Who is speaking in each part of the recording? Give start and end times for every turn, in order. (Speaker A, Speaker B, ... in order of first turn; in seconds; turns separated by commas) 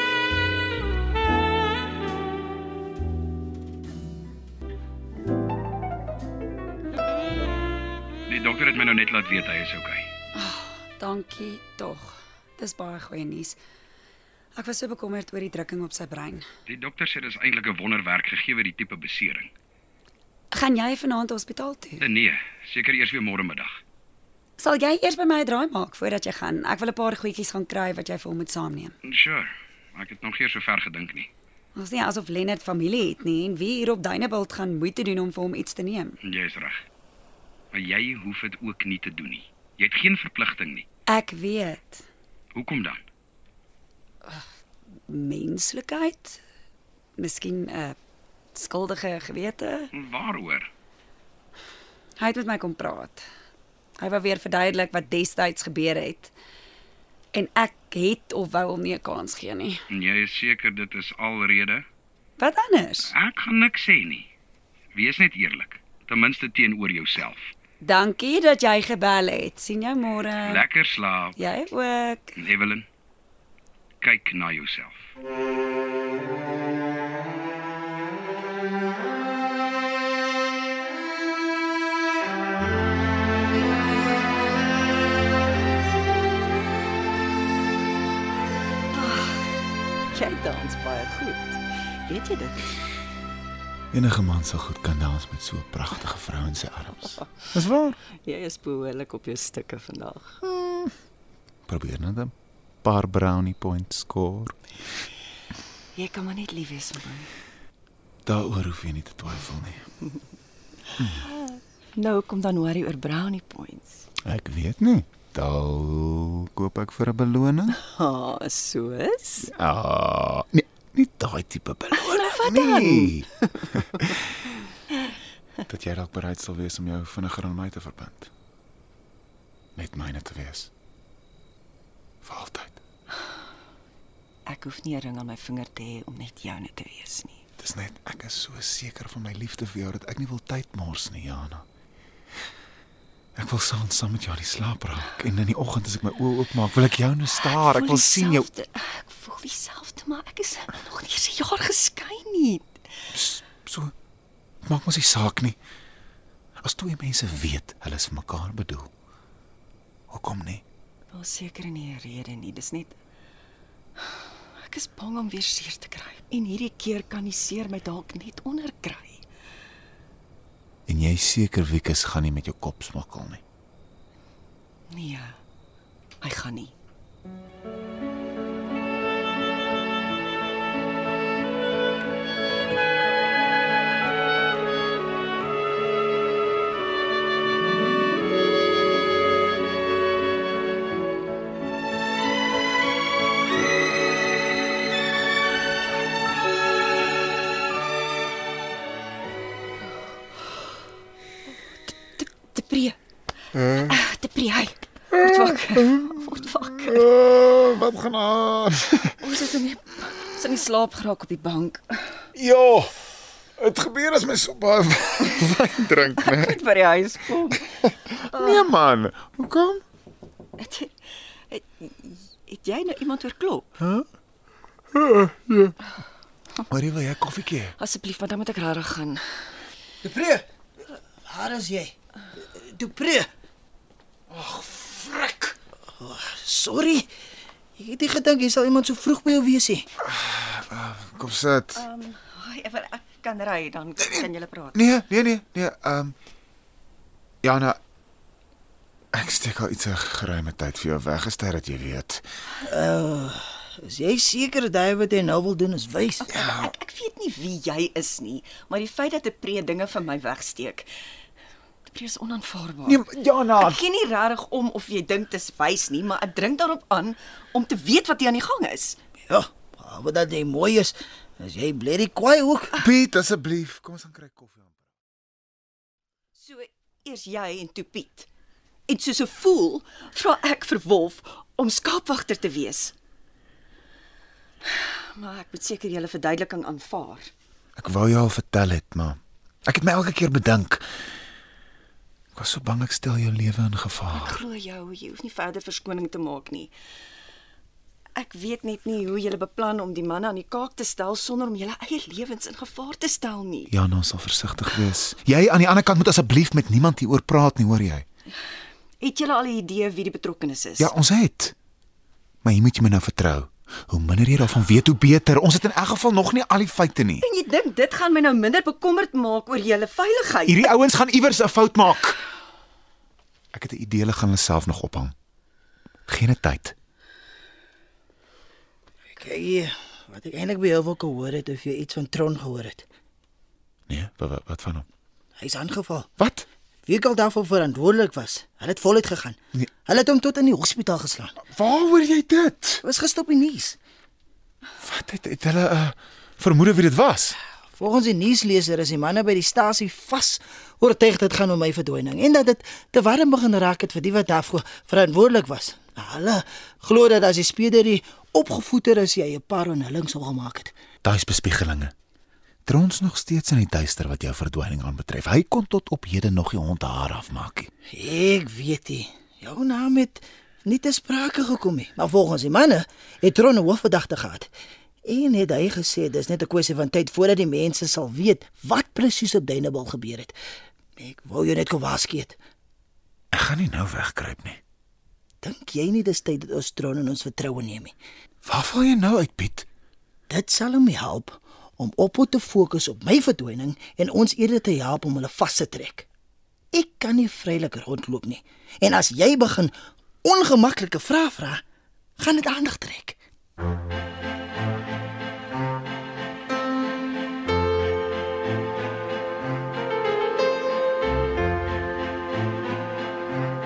Speaker A: 8.3-10.1, Speaker B: 10.3-13.6, Speaker B: 14.6-16.5, Speaker A: 16.7-19.5, Speaker B: 20.5-22.1, Speaker A: 22.0-23.8, Speaker B: 24.6-28.9, Speaker A: 29.0-31.3, Speaker B: 31.8-36.2, Speaker A: 36.2-36.8, Speaker A: 37.7-40.9, Speaker B: 41.1-42.0, Speaker A: 42.5-43.0, Speaker B: 45.1-46.4, Speaker B: 47.2-48.0, Speaker B: 48.5-49.9, Speaker A: 49.9-50.7, Speaker B: 52.2-53.2, Speaker B: 54.0-56.3, Speaker B: 57.3-59.8, Speaker A: 59.9-61.9, Speaker B: 62.4-63.1, Speaker A: 63.1-64.3, Speaker A: 65.0-67.5, Speaker B: 67.8-70.6, Speaker A: 70.5-71.4, Speaker B: 71.4-72.3, Speaker A: 72.4-72.9, Speaker A: 74.0-75.0, Speaker C: 88.9-89.4, Speaker C: 90.1-92.8, Speaker D: 93.9-98.0, Speaker C: 98.2-100.4, Speaker D: 100.6-100.9, Speaker D: 101.7-102.3, Speaker D: 102.8-104.6, Speaker C: 106.0-107.3, Speaker D: 108.2-109.9, Speaker D: 111.0-111.2, Speaker C: 111.2-114.0, Speaker D: 114.2-117.8, Speaker C: 117.8-119.5, Speaker D: 119.6-124.3, Speaker C: 121.9-123.2, Speaker D: 125.7-128.3, Speaker D: 129.8-130.7, Speaker D: 132.2-132.8, Speaker C: 134.5-137.4, Speaker D: 137.6-141.6, Speaker D: 143.4-148.5, Speaker C: 147.4-152.7, Speaker D: 153.1-153.9, Speaker D: 154.7-155.6, Speaker D: 156.6-158.9, Speaker D: 160.1-160.6, Speaker C: 161.1-162.9, Speaker C: 164.6-169.2, Speaker D: 170.9-173.4, Speaker C: 174.9-175.4, Speaker C: 176.2-176.7, Speaker C: 201.9-203.0, Speaker D: 203.6-204.0, Speaker C: 203.8-207.1, Speaker D: 205.1-206.0, Speaker D: 206.8-209.2, Speaker C: 209.2-212.2, Speaker D: 212.3-212.9, Speaker D: 213.6-216.6, Speaker C: 216.2-217.7, Speaker D: 218.0-219.8, Speaker C: 218.3-218.7, Speaker C: 220.6-220.9, Speaker C: 221.5-223.7, Speaker D: 223.8-224.1, Speaker D: 224.9-225.7, Speaker D: 226.7-227.7, Speaker C: 227.8-229.2, Speaker E: 230.0-233.3, Speaker D: 234.3-235.5, Speaker E: 236.0-237.1, Speaker E: 237.8-239.9, Speaker D: 240.0-241.9, Speaker C: 241.8-244.8, Speaker D: 244.0-246.2, Speaker D: 247.4-247.8, Speaker D: 249.1-252.2, Speaker E: 252.6-256.4, Speaker C: 256.3-260.9, Speaker D: 256.4-256.7, Speaker C: 261.9-269.0, Speaker D: 262.9-263.8, Speaker E: 269.3-272.8, Speaker D: 272.8-274.8, Speaker C: 276.4-278.3, Speaker C: 278.9-282.9, Speaker C: 284.7-287.3, Speaker D: 287.8-290.8, Speaker D: 292.3-294.4, Speaker C: 294.1-296.7, Speaker C: 298.1-303.7, Speaker D: 303.7-308.1, Speaker C: 309.0-310.9, Speaker D: 310.8-311.5, Speaker D: 312.4-317.3, Speaker C: 317.2-320.7, Speaker D: 320.4-322.2, Speaker D: 323.5-325.1, Speaker D: 326.1-326.7, Speaker E: 329.1-332.9, Speaker D: 333.9-334.9, Speaker E: 335.4-336.1, Speaker D: 336.2-336.5, Speaker E: 336.9-341.4, Speaker D: 341.4-342.8, Speaker E: 342.8-343.8, Speaker D: 344.8-347.4, Speaker E: 347.8-360.8, Speaker D: 361.0-361.9, Speaker D: 362.7-367.7, Speaker E: 367.9-374.5, Speaker E: 375.1-380.4, Speaker E: 381.0-382.4, Speaker D: 383.3-384.6, Speaker E: 385.4-387.9, Speaker D: 388.4-389.7, Speaker E: 390.3-396.1, Speaker E: 396.7-401.6, Speaker E: 402.2-403.2